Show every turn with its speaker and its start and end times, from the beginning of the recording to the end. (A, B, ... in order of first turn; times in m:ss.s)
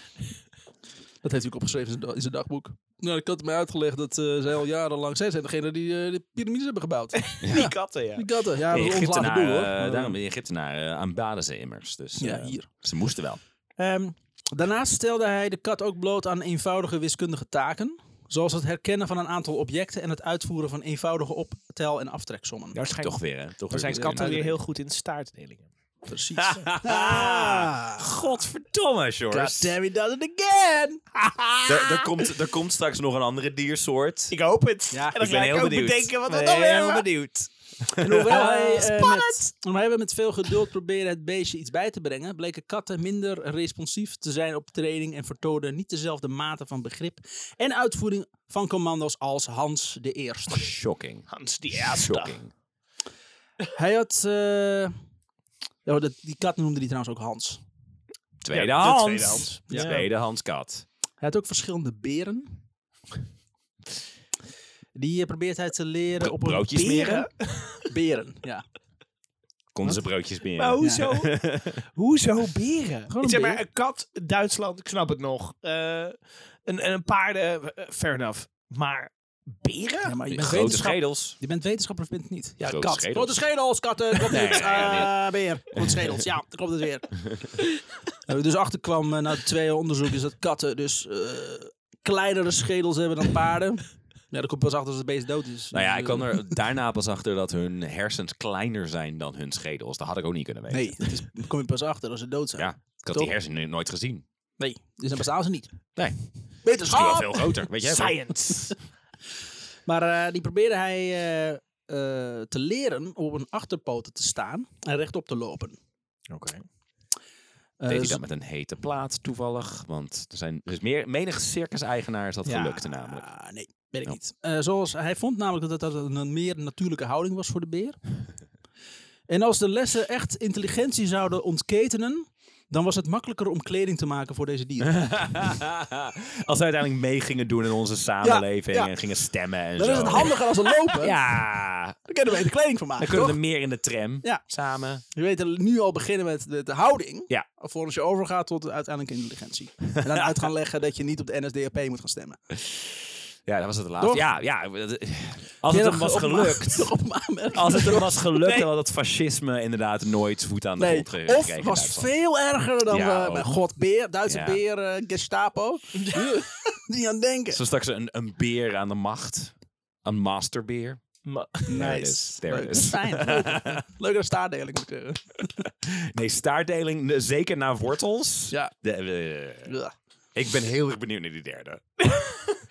0:01.2-0:10.2 A
0:07.2-0:08.3 B
0:07.4-0:07.7 C
0:08.7-0:13.4 C
0:12.2-0:12.7 A
0:13.8-0:22.8 A
0:22.7-0:25.7 B
0:23.0-0:24.3 C
0:23.9-0:24.6 A
0:26.0-0:28.1 A
0:26.4-0:29.7 C
0:29.3-0:31.0 A
0:31.2-0:32.1 B
0:31.7-0:34.3 C
0:34.3-0:37.1 B
0:34.9-0:35.2 A
0:35.2-0:38.4 C
0:38.0-0:50.7 A
0:38.3-0:39.4 B
0:50.5-0:52.5 C
0:51.3-0:52.4 B
0:53.7-0:54.9 A
0:55.8-0:57.6 A
0:58.4-1:00.8 C
0:58.5-1:00.0 B
0:59.7-1:00.0 A
1:01.2-1:02.6 A
1:04.9-1:07.3 A
1:06.2-1:07.2 C
1:06.7-1:07.9 B
1:07.8-1:08.6 A
1:09.7-1:11.8 C
1:10.6-1:20.8 B
1:10.8-1:11.0 A
1:13.1-1:13.6 A
1:20.0-1:27.1 A
1:20.3-1:21.4 C
1:22.6-1:23.4 C
1:24.2-1:25.2 C
1:28.3-1:36.5 A
1:35.7-1:41.0 C
1:40.7-1:43.3 A
1:42.6-1:44.2 C
1:44.6-1:45.7 A
1:46.6-1:47.6 A
1:46.7-1:48.2 C
1:47.8-1:48.8 B
1:49.8-1:55.8 A
1:56.3-1:56.6 B
1:57.8-1:58.2 A
1:57.9-2:03.2 C
2:02.4-2:08.0 A
2:09.3-2:15.0 A
2:14.9-2:22.0 C
2:18.2-2:18.9 A
2:19.8-2:21.2 A
2:22.0-2:23.4 A
2:23.0-2:25.0 C
2:25.1-2:32.4 A
2:33.4-2:36.9 C
2:34.0-2:34.2 A
2:35.7-2:38.2 A
2:37.5-2:42.1 C
2:40.8-2:47.6 A
2:42.8-2:43.6 C
2:44.3-2:44.6 C
2:46.0-2:46.3 B
2:47.5-2:51.0 C
2:51.2-2:51.9 B
2:51.7-2:55.7 A
2:51.7-2:53.8 C
2:55.8-2:59.7 C
2:59.6-2:59.9 A
3:00.3-3:02.0 C
3:02.0-3:02.6 B